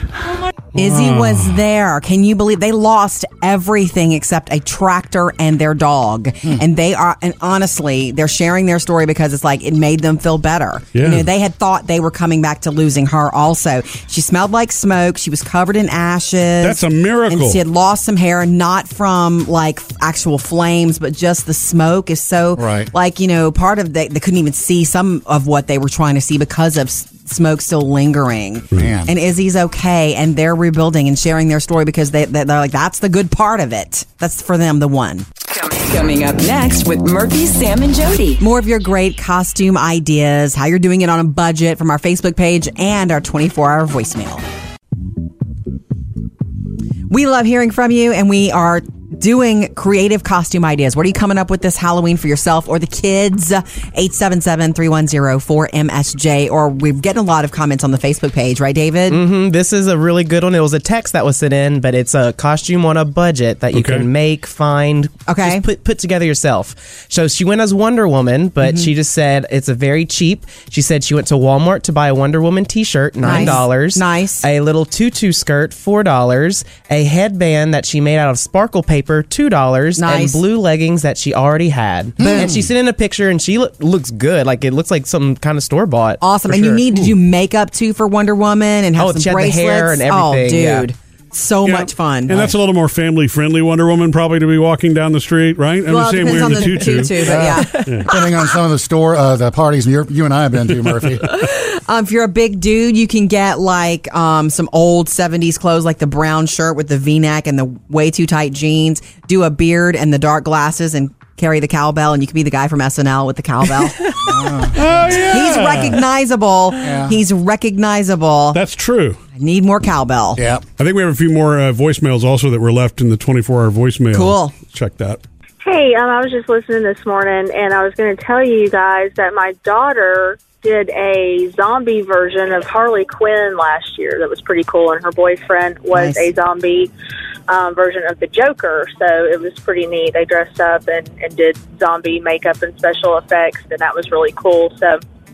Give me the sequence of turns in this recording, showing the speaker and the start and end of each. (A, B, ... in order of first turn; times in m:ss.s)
0:00.8-0:35.2 A
0:00.8-0:01.6 B
0:10.9-0:11.3 B
0:16.6-0:17.6 B
0:22.6-0:22.9 C
0:28.7-0:29.1 C
0:35.5-0:38.4 D
0:38.4-0:44.4 A
0:47.1-0:59.2 A
0:59.1-1:26.8 E
1:03.7-1:04.1 B
1:05.3-1:05.6 A
1:08.6-1:08.9 A
1:13.2-1:14.4 A
1:20.0-1:20.4 A
1:22.2-1:22.5 A
1:22.2-1:22.7 C
1:26.2-1:32.5 A
1:29.0-1:30.9 E
1:31.6-1:38.1 B
1:35.9-1:38.2 A
1:37.2-1:41.3 C
1:41.3-1:54.3 A
1:54.2-1:55.4 C
1:54.7-1:56.0 B
1:55.0-1:58.6 A
1:56.8-1:57.2 C
1:58.5-1:59.2 B
1:59.4-2:00.4 A
2:00.4-2:00.6 C
2:00.8-2:05.2 B
2:04.1-2:04.5 A
2:05.6-2:16.9 F
2:15.9-2:16.3 A
2:17.5-2:25.0 F